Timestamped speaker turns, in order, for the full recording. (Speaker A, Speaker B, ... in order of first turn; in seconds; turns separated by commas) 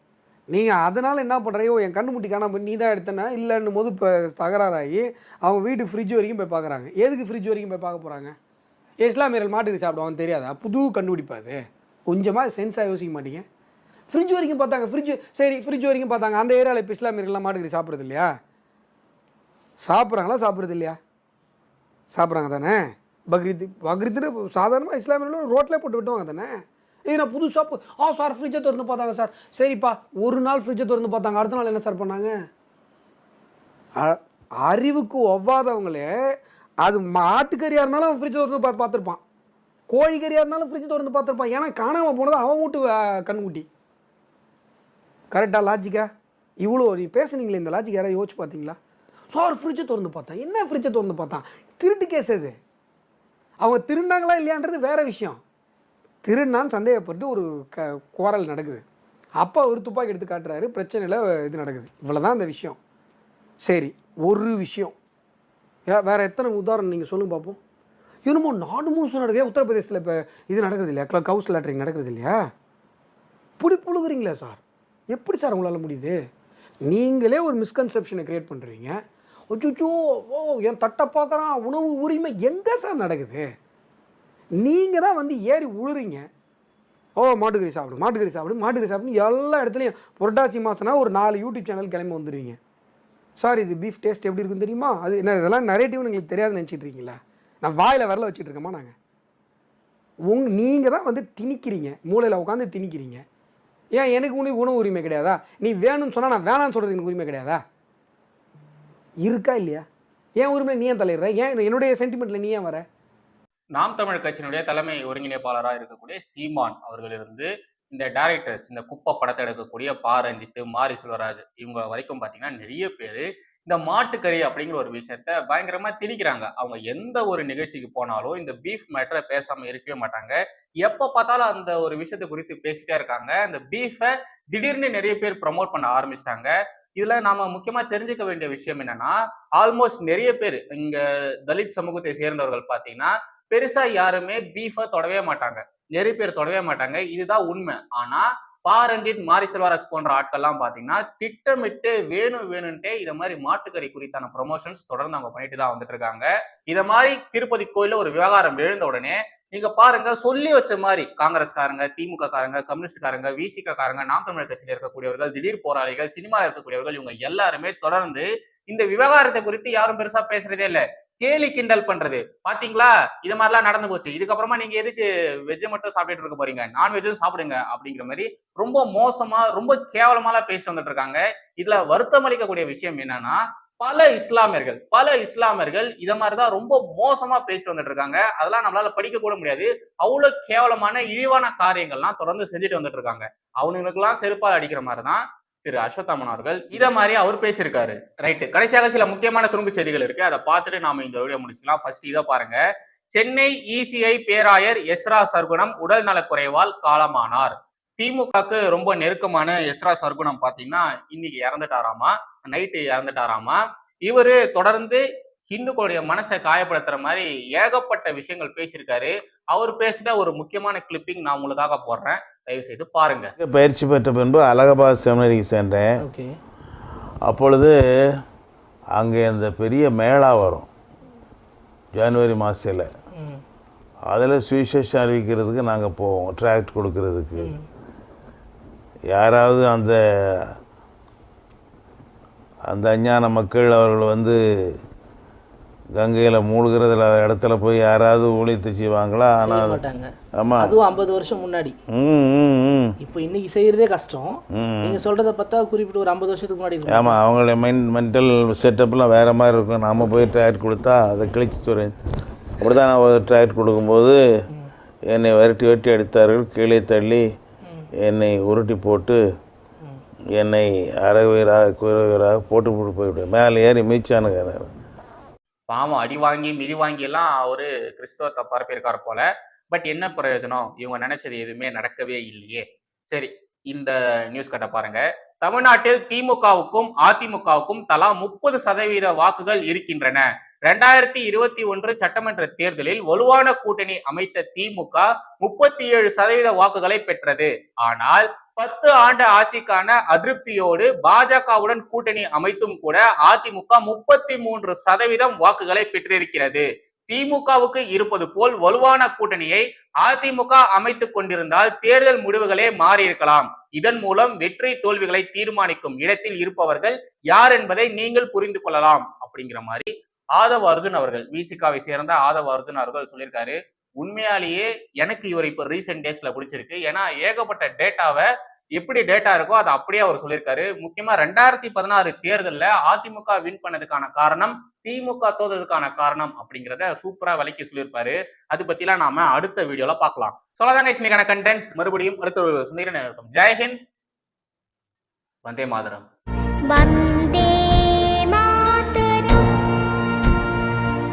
Speaker A: 0.5-8.3, Speaker A: 9.0-13.4, Speaker A: 14.1-18.3, Speaker A: 19.9-21.0, Speaker A: 22.1-32.3, Speaker A: 34.0-36.1, Speaker A: 36.8-39.2, Speaker A: 39.9-43.7, Speaker A: 45.3-46.1, Speaker A: 46.6-48.8, Speaker A: 49.3-52.6, Speaker A: 53.6-55.4, Speaker A: 56.2-58.8, Speaker A: 59.4-62.8, Speaker A: 63.6-65.0, Speaker A: 65.9-67.6, Speaker A: 68.3-72.4, Speaker A: 73.6-76.2, Speaker A: 76.9-79.0, Speaker A: 79.5-83.5, Speaker A: 84.6-86.3, Speaker A: 87.2-92.6, Speaker A: 93.4-98.9, Speaker A: 100.3-103.2, Speaker A: 104.0-107.6, Speaker A: 109.2-109.8, Speaker A: 110.4-112.8, Speaker B: 113.8-202.6, Speaker B: 203.2-223.3, Speaker C: 223.4-226.0, Speaker D: 226.0-226.3, Speaker C: 227.3-227.8, Speaker C: 229.0-230.7, Speaker C: 231.9-232.9, Speaker D: 233.1-233.4, Speaker C: 234.1-237.5, Speaker D: 237.4-237.7, Speaker C: 239.1-240.5, Speaker C: 242.7-244.4, Speaker C: 246.0-249.8, Speaker D: 249.4-250.1, Speaker C: 250.4-250.8, Speaker D: 250.6-251.8, Speaker C: 251.9-252.9, Speaker D: 253.0-257.2, Speaker C: 254.6-255.0, Speaker C: 256.9-261.9, Speaker C: 262.6-264.2, Speaker C: 265.1-267.3, Speaker C: 268.0-269.2, Speaker C: 270.4-274.7, Speaker B: 275.7-343.8, Speaker B: 345.4-346.1, Speaker E: 346.7-350.4